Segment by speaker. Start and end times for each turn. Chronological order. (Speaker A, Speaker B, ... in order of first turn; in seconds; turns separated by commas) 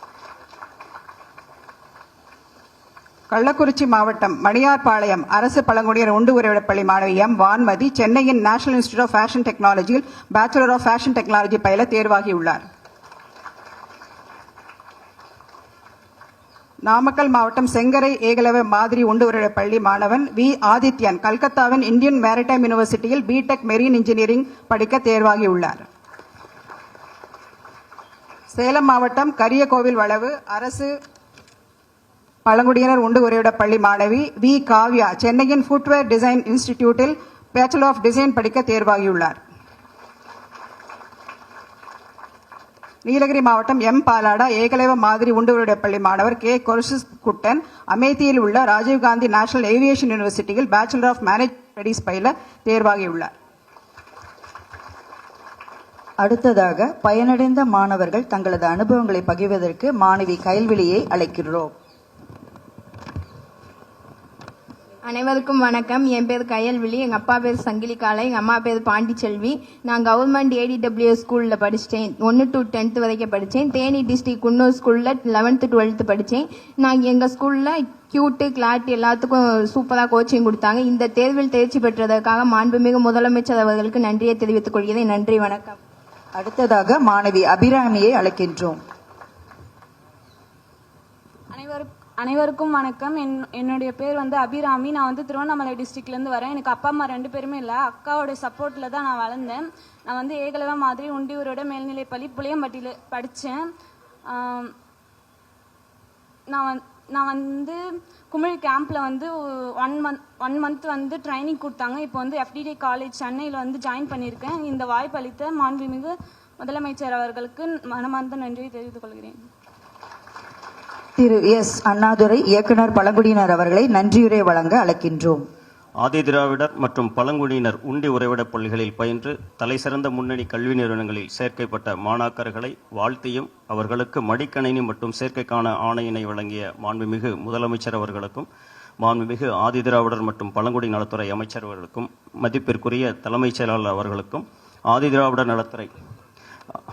Speaker A: 3.3-12.6, Speaker A: 16.8-25.9, Speaker A: 28.5-30.9, Speaker A: 32.4-39.4, Speaker A: 43.0-53.3, Speaker B: 56.2-61.7, Speaker C: 65.0-85.8, Speaker B: 86.4-88.8, Speaker D: 91.5-103.5, Speaker D: 104.3-104.7, Speaker D: 106.5-107.8, Speaker D: 108.3-119.4, Speaker B: 121.2-125.4, Speaker E: 126.0-138.5, Speaker E: 139.0-145.9